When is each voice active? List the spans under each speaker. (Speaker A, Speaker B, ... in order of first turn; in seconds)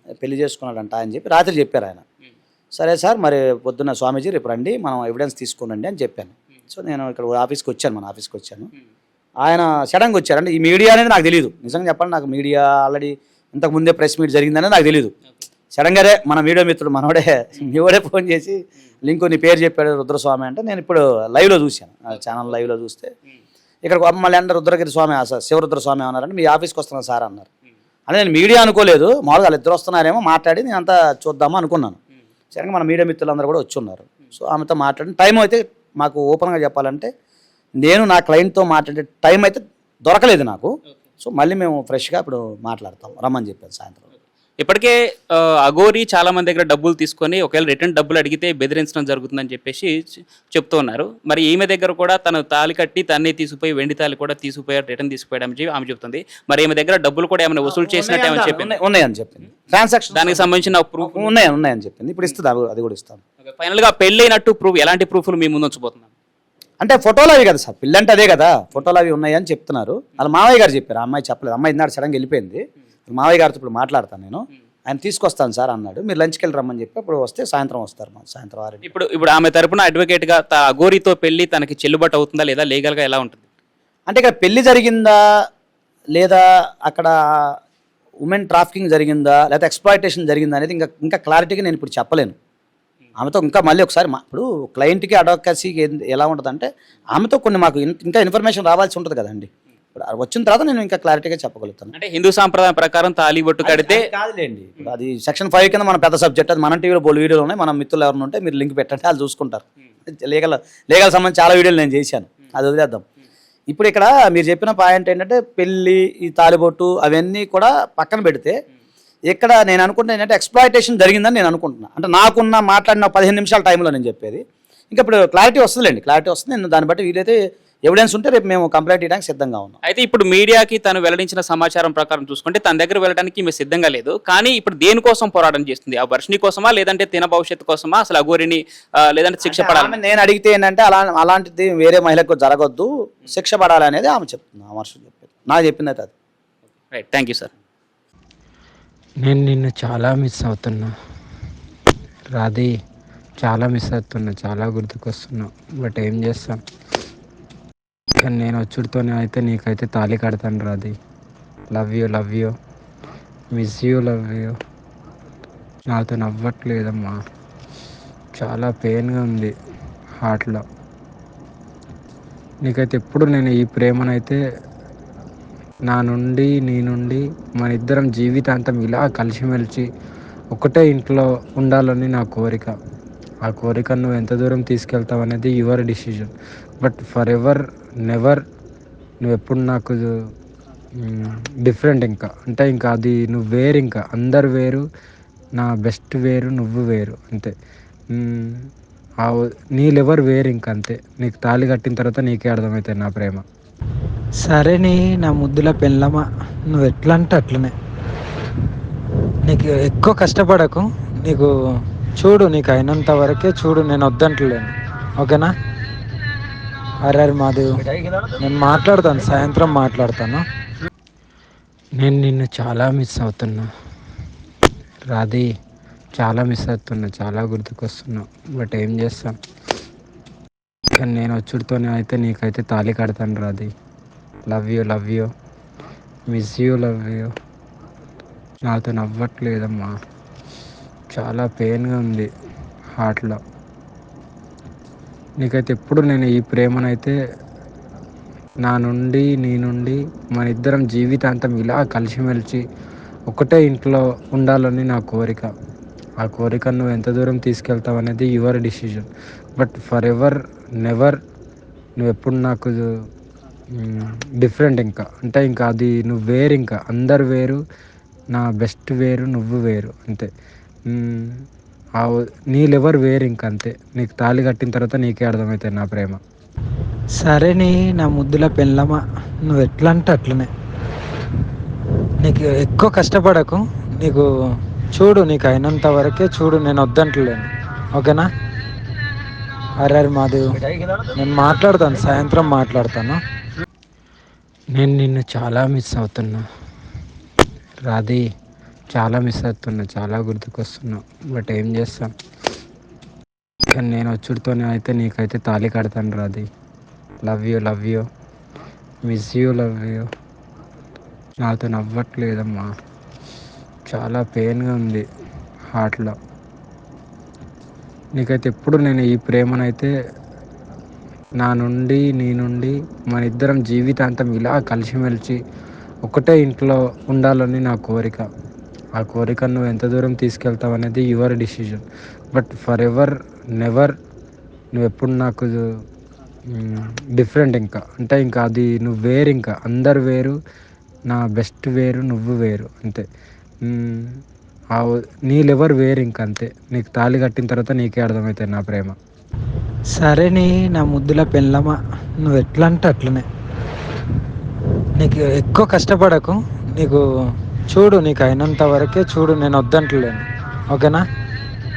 Speaker A: 0.2-2.0, 2.7-8.7, 9.4-15.1, 15.7-23.1, 23.8-27.5, 28.1-32.0, 32.5-37.1, 37.8-44.1, 57.7-63.2, 66.8-78.9, 84.1-85.2, 86.1-87.6, 88.2-92.4, 93.2-101.9, 103.6-113.0, 113.7-118.5, 119.3-129.8, 139.4-146.1, 217.8-218.4, 290.6-291.1
Speaker B: 44.6-58.8, 60.1-61.4, 63.5-66.1, 78.8-83.5, 102.0-104.1, 129.8-140.0, 146.9-147.5
Speaker C: 149.2-150.9, 152.4-152.7, 153.4-156.6, 158.2-160.9, 161.7-162.5, 163.5-164.5, 165.9-167.2, 168.4-169.5, 170.2-170.6, 172.7-174.4, 175.9-179.8, 180.5-182.7, 183.5-188.4, 189.2-190.1, 191.0-194.8, 195.6-197.5, 198.1-198.7, 199.2-203.4, 222.0-223.7, 225.1-225.5, 226.2-229.4, 231.0-233.7, 234.5-235.3, 236.3-237.3, 238.7-239.9, 241.1-242.3, 243.0-243.4, 245.4-247.1, 248.6-252.6, 253.3-255.5, 256.2-261.2, 262.0-262.8, 263.8-267.6, 268.3-270.3, 270.9-271.3, 272.0-276.2, 294.8-296.4, 297.9-298.2, 298.9-302.1, 303.7-306.4, 307.2-308.0, 309.1-310.1, 311.4-312.7, 313.9-315.0, 315.7-316.1, 318.2-319.9, 321.4-325.4, 326.1-328.3, 329.0-333.9, 334.8-335.6, 336.5-340.4, 341.1-343.0, 343.6-344.2, 344.8-348.9
Speaker D: 204.4-207.7, 209.4-211.5, 212.2-215.5, 217.1-217.7, 218.4-220.4, 277.2-280.5, 282.2-284.3, 284.9-288.3, 289.8-290.6, 291.2-293.2, 350.0-353.3, 355.0-357.0, 357.7-361.0